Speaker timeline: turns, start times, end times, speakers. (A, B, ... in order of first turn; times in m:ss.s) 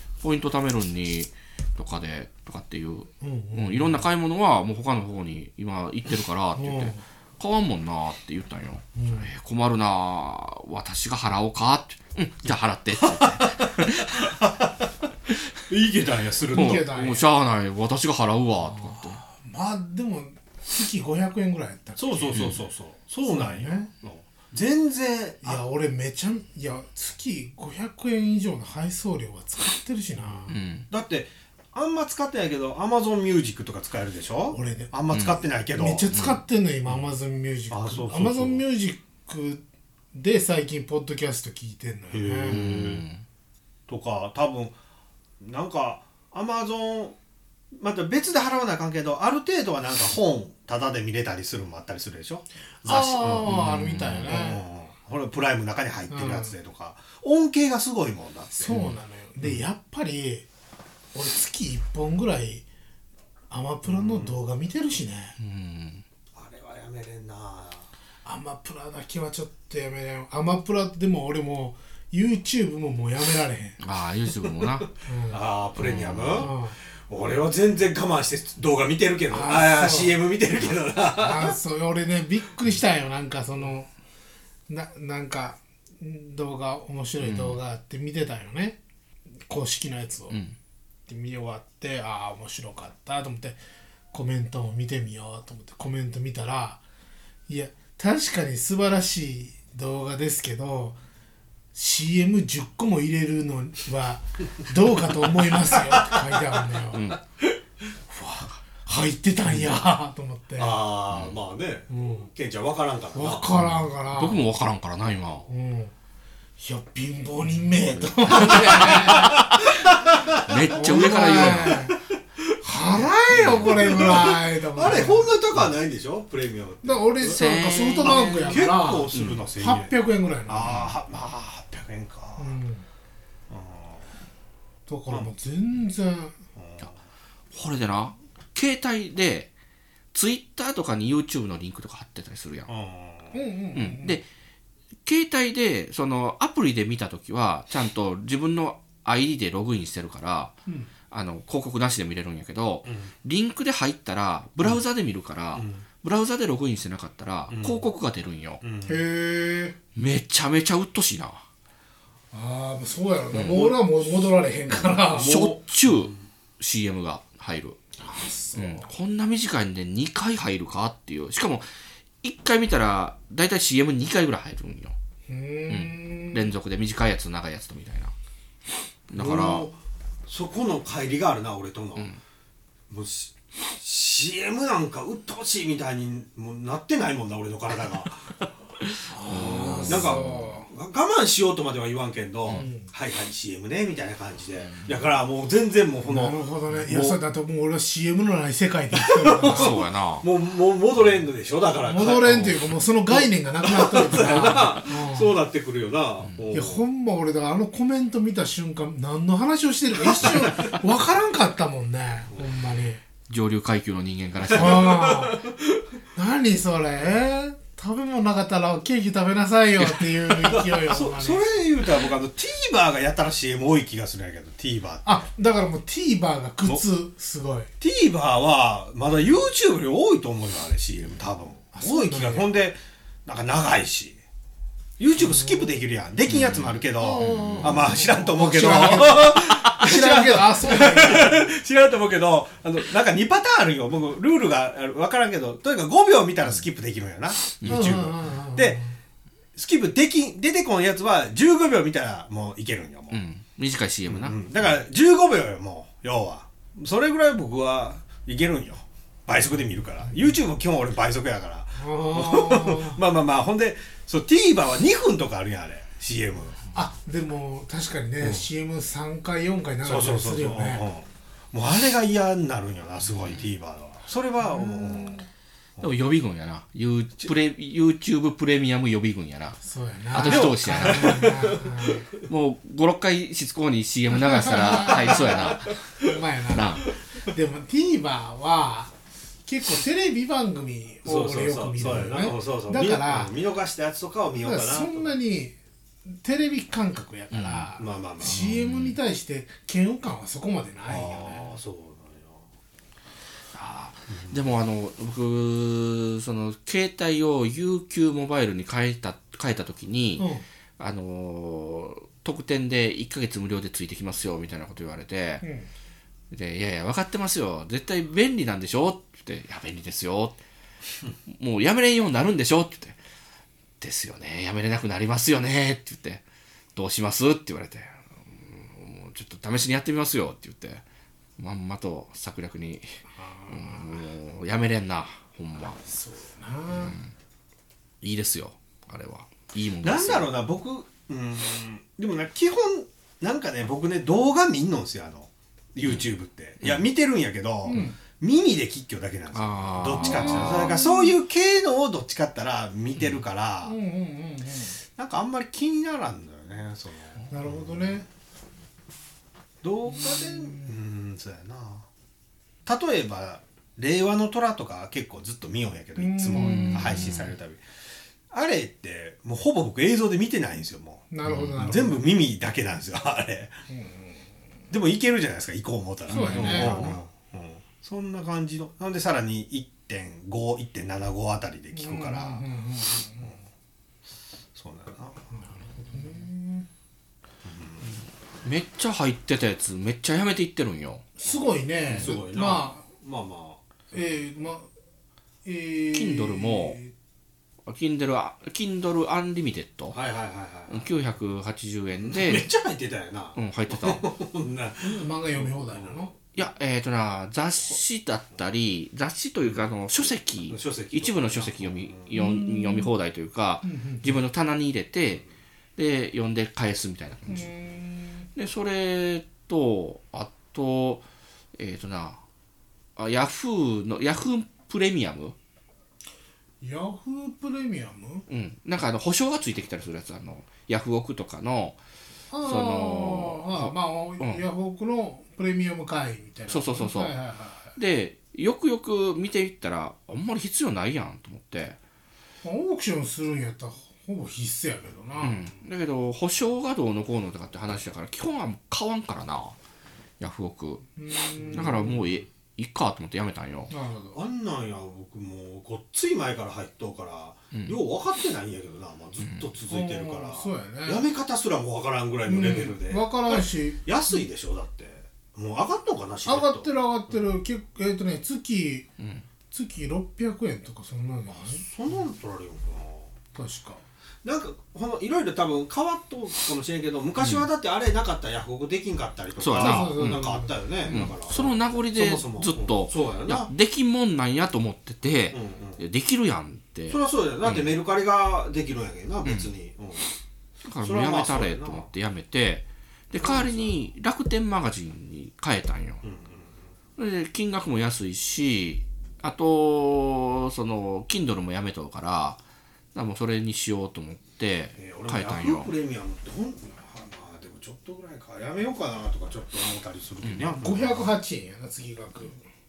0:00.2-0:14.2 A
0:03.2-0:04.0 B
0:06.6-0:07.0 B
0:08.9-0:09.3 B
0:13.0-0:16.9 C
0:16.5-0:19.2 A
0:16.5-0:17.2 B
0:18.6-0:22.5 B
0:22.0-0:25.6 C
0:23.2-0:23.9 B
0:25.4-0:30.6 B
0:30.5-0:30.8 A
0:30.9-0:36.0 C
0:34.5-0:34.9 B
0:35.1-0:35.4 A
0:35.7-0:42.6 B
0:36.1-0:36.4 A
0:36.8-0:37.1 C
0:37.7-0:38.6 C
0:42.1-0:43.1 C
0:42.5-0:43.2 A
0:43.9-0:44.8 C
0:45.4-0:47.2 C
0:47.7-0:58.8 C
0:52.8-0:54.6 B
0:53.4-0:54.3 A
0:56.1-0:56.5 B
0:58.5-1:00.5 B
0:58.7-0:59.0 A
1:01.1-1:02.6 B
1:03.5-1:05.4 B
1:03.8-1:04.4 C
1:05.4-1:06.0 A
1:06.3-1:07.9 C
1:08.2-1:13.8 B
1:13.8-1:14.9 A
1:14.4-1:16.5 C
1:15.0-1:15.4 B
1:15.8-1:16.5 A
1:16.3-1:16.8 B
1:17.1-1:21.6 C
1:19.3-1:20.2 B
1:21.1-1:23.9 B
1:24.7-1:28.8 B
1:27.2-1:27.6 A
1:29.5-1:30.4 B
1:30.3-1:30.5 A
1:31.1-1:33.6 B
1:34.1-1:36.8 B
1:37.5-1:41.0 B
1:41.7-1:47.0 B
1:45.7-1:46.8 C
1:46.9-1:47.2 A
1:48.1-1:50.8 B
1:50.6-1:53.5 C
1:51.1-1:51.4 A
1:51.9-1:52.3 B
1:53.1-1:54.4 B
1:53.5-1:55.5 A
1:55.5-1:55.9 B
1:56.6-1:59.4 B
1:58.0-1:59.6 A
1:58.3-2:02.0 C
2:00.4-2:01.9 A
2:00.7-2:02.0 B
2:02.6-2:05.3 B
2:03.3-2:04.1 A
2:03.3-2:07.4 C
2:06.8-2:10.8 B
2:07.2-2:09.4 A
2:08.0-2:09.9 C
2:10.5-2:12.6 C
2:10.6-2:10.9 A
2:12.4-2:12.8 B
2:13.5-2:14.1 C
2:14.9-2:16.4 B
2:16.6-2:16.9 C
2:17.5-2:19.5 A
2:20.1-2:22.7 A
2:22.7-2:23.4 C
2:23.3-2:24.2 B
2:23.7-2:24.2 A
2:25.0-2:30.6 A
2:31.1-2:38.6 A
2:35.5-2:35.8 C
2:37.5-2:37.8 C
2:38.6-2:39.0 C
2:38.8-2:39.8 B
2:39.9-2:41.4 A
2:42.3-2:45.3 B
2:43.3-2:43.8 A
2:45.0-2:46.2 C
2:45.1-2:47.8 A
2:48.0-2:48.9 B
2:48.5-2:51.7 A
2:52.2-2:54.9 A
2:55.3-2:56.5 B
2:55.7-2:58.1 A
2:59.1-2:59.7 A
2:59.1-3:02.1 C
3:02.9-3:08.3 C
3:09.1-3:10.7 B
3:09.2-3:10.5 A
3:09.3-3:16.4 C
3:12.5-3:12.9 B
3:14.6-3:14.9 A
3:16.0-3:19.7 B
3:16.7-3:17.2 A
3:18.9-3:26.8 C
3:19.4-3:20.2 A
3:21.8-3:25.4 B
3:24.3-3:24.7 A
3:26.5-3:33.0 B
3:30.0-3:30.8 C
3:33.3-3:35.1 A
3:34.5-3:35.8 C
3:34.5-3:35.4 B
3:36.1-3:41.5 B
3:39.8-3:40.3 A
3:40.4-3:45.2 C
3:45.0-3:47.7 B
3:47.8-3:54.2 C
3:51.7-3:52.5 B
3:55.0-4:08.8 C
3:55.2-3:55.7 B
3:56.3-3:58.0 A
3:57.0-4:01.5 B
4:07.6-4:08.0 A
4:07.7-4:08.9 B
4:09.6-4:13.2 C
4:13.1-4:14.4 A
4:14.1-4:26.6 C
4:21.8-4:23.0 B
4:26.7-4:30.8 B
4:28.2-4:28.5 C
4:29.8-4:35.2 C
4:34.4-4:35.2 B
4:35.8-4:39.6 A
4:39.6-4:42.1 B
4:40.1-4:41.5 A
4:40.2-4:42.2 C
4:42.2-4:45.8 A
4:44.1-4:48.9 B
4:46.5-4:46.9 A
4:49.4-4:53.3 B
4:51.0-4:55.2 C
4:54.4-5:01.6 B
4:57.3-4:59.0 A
4:57.8-4:58.5 C
5:00.8-5:02.5 C
5:03.5-5:10.3 A
5:04.1-5:04.4 C
5:10.2-5:10.4 B
5:10.8-5:15.4 A
5:15.4-5:15.7 B
5:16.3-5:20.4 A
5:21.3-5:23.0 A
5:23.8-5:26.2 A
5:26.7-5:30.8 A
5:31.4-5:33.0 A
5:33.2-5:34.0 B
5:33.5-5:35.8 A
5:35.8-5:37.0 B
5:36.7-5:37.1 A
5:38.0-5:40.3 A
5:39.8-5:53.8 C
5:47.7-5:48.0 B
5:49.3-5:50.8 A
5:50.0-5:51.1 B
5:53.6-5:54.8 B
5:55.0-5:58.0 C
5:57.3-5:58.1 B
5:59.6-6:01.9 C
5:59.9-6:00.7 B
6:02.6-6:07.6 C
6:06.0-6:07.1 B
6:06.3-6:07.3 A
6:08.3-6:13.6 C
6:11.1-6:12.0 B
6:11.2-6:11.7 A
6:13.7-6:14.2 B
6:14.7-6:22.4 C
6:16.1-6:17.0 B
6:16.1-6:16.9 A
6:21.7-6:23.4 B
6:24.5-6:25.4 C
6:25.3-6:26.7 B
6:27.4-6:27.9 C
6:28.4-6:31.1 A
6:31.2-6:32.8 B
6:31.9-6:33.6 C
6:33.9-6:34.7 B
6:35.4-6:36.9 B
6:35.9-6:36.8 A
6:37.6-6:40.0 A
6:39.9-6:40.9 C
6:40.7-6:42.5 A
6:42.0-6:46.1 C
6:43.4-6:44.1 A
6:44.8-6:46.1 B
6:46.3-6:55.2 A
6:50.5-6:52.1 C
6:52.1-6:52.9 B
6:53.6-6:54.2 B
6:55.8-6:57.5 A
6:57.3-6:58.3 B
6:58.3-7:01.0 A
7:01.6-7:02.2 A
7:03.0-7:05.3 A
7:06.6-7:08.2 B
7:08.3-7:11.8 A
7:12.3-7:17.8 B
7:12.4-7:14.4 A
7:16.5-7:17.1 A
7:17.8-7:21.8 A
7:22.4-7:25.4 B
7:25.2-7:29.5 A
7:30.2-7:30.9 A
7:31.0-7:32.0 B
7:31.4-7:32.0 C
7:31.4-7:33.7 A
7:33.7-7:34.2 B
7:34.1-7:46.7 C
7:37.5-7:37.8 A
7:39.2-7:39.5 A
7:39.7-7:41.0 B
7:42.2-7:43.8 B
7:46.2-7:48.9 B
7:49.0-7:49.2 A
7:49.5-7:51.6 B
7:51.3-7:53.1 C
7:53.3-7:53.8 B
7:54.2-8:03.5 C
7:57.2-7:57.5 A
7:59.4-8:07.7 A
7:59.6-8:00.9 B
8:05.3-8:05.8 C
8:06.9-8:10.1 C
8:09.2-8:09.5 A
8:10.6-8:16.0 A
8:10.8-8:11.9 C
8:13.2-8:13.8 C
8:16.0-8:16.6 C
8:17.0-8:22.4 A
8:22.9-8:25.7 A
8:24.8-8:31.1 C
8:30.2-8:30.6 A
8:30.6-8:32.4 B